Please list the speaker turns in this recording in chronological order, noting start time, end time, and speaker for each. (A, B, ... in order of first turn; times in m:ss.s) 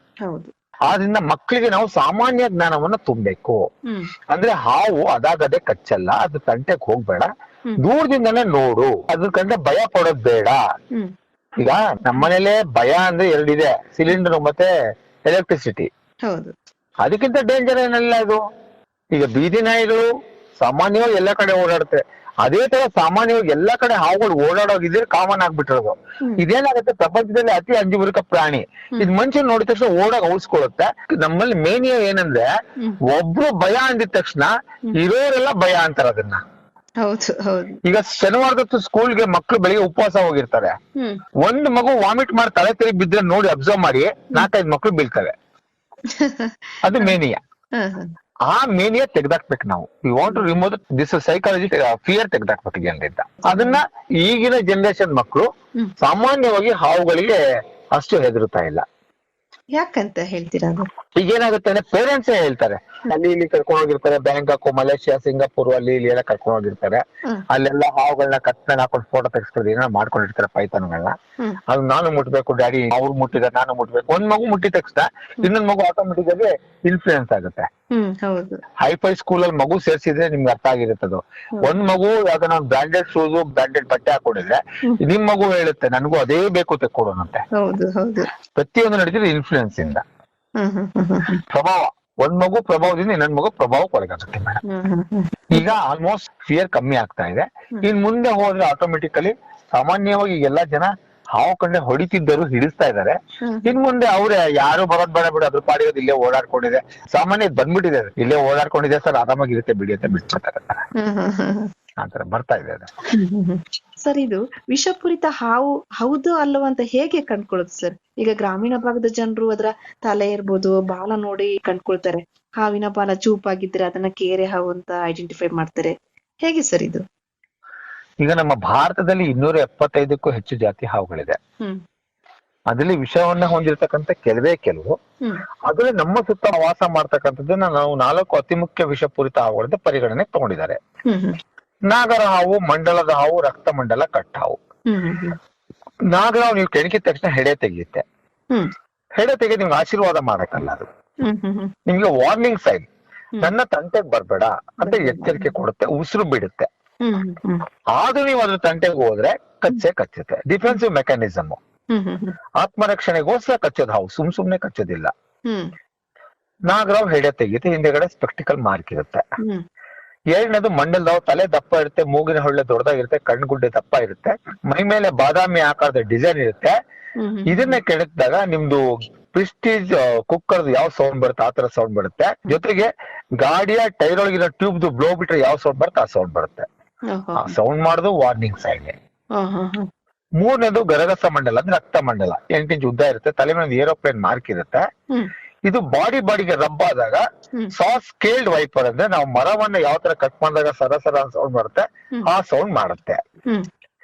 0:00.2-0:00.5 A
0:00.9-0:03.6 B
0:04.3-0:10.6 B
0:11.6-0:14.7 B
0:15.3-0:15.9 B
0:16.3-0:16.6 A
0:17.0-0:18.4 B
0:19.1-0:32.5 B
0:33.1-0:36.4 B
0:37.0-0:37.8 A
0:37.8-0:40.8 B
0:41.4-0:45.4 B
0:46.1-0:47.2 A
0:46.8-0:47.4 B
0:47.8-0:48.1 A
0:48.5-0:57.4 B
0:53.4-0:53.8 A
0:57.9-0:58.8 B
0:59.8-1:00.9 A
1:01.2-1:11.2 B
1:11.7-1:17.7 B
1:17.9-1:18.6 A
1:18.8-1:27.4 B
1:27.6-1:28.3 A
1:28.6-1:30.0 B
1:30.6-1:31.4 A
1:31.5-1:34.6 B
1:34.7-1:35.7 A
1:35.5-1:50.9 B
1:43.4-1:43.8 A
1:51.0-1:51.7 A
1:52.0-1:52.9 B
1:53.1-2:07.0 A
2:08.2-2:11.4 B
2:12.7-2:15.0 B
2:15.7-2:20.8 B
2:21.1-2:21.4 A
2:21.9-2:24.6 B
2:24.9-2:25.4 A
2:26.1-2:28.0 B
2:29.2-2:30.9 B
2:31.2-2:31.7 A
2:31.9-2:32.9 B
2:33.4-2:36.7 B
2:34.8-2:35.5 A
2:37.0-2:37.6 A
2:38.0-2:41.6 B
2:41.9-2:42.4 A
2:42.6-2:45.1 B
2:46.7-2:49.2 B
2:50.3-2:56.8 B
2:57.2-2:57.8 A
2:57.5-3:06.7 B
3:07.1-3:07.6 A
3:07.4-3:09.0 B
3:09.4-3:09.9 A
3:10.4-3:14.9 B
3:15.7-3:23.2 B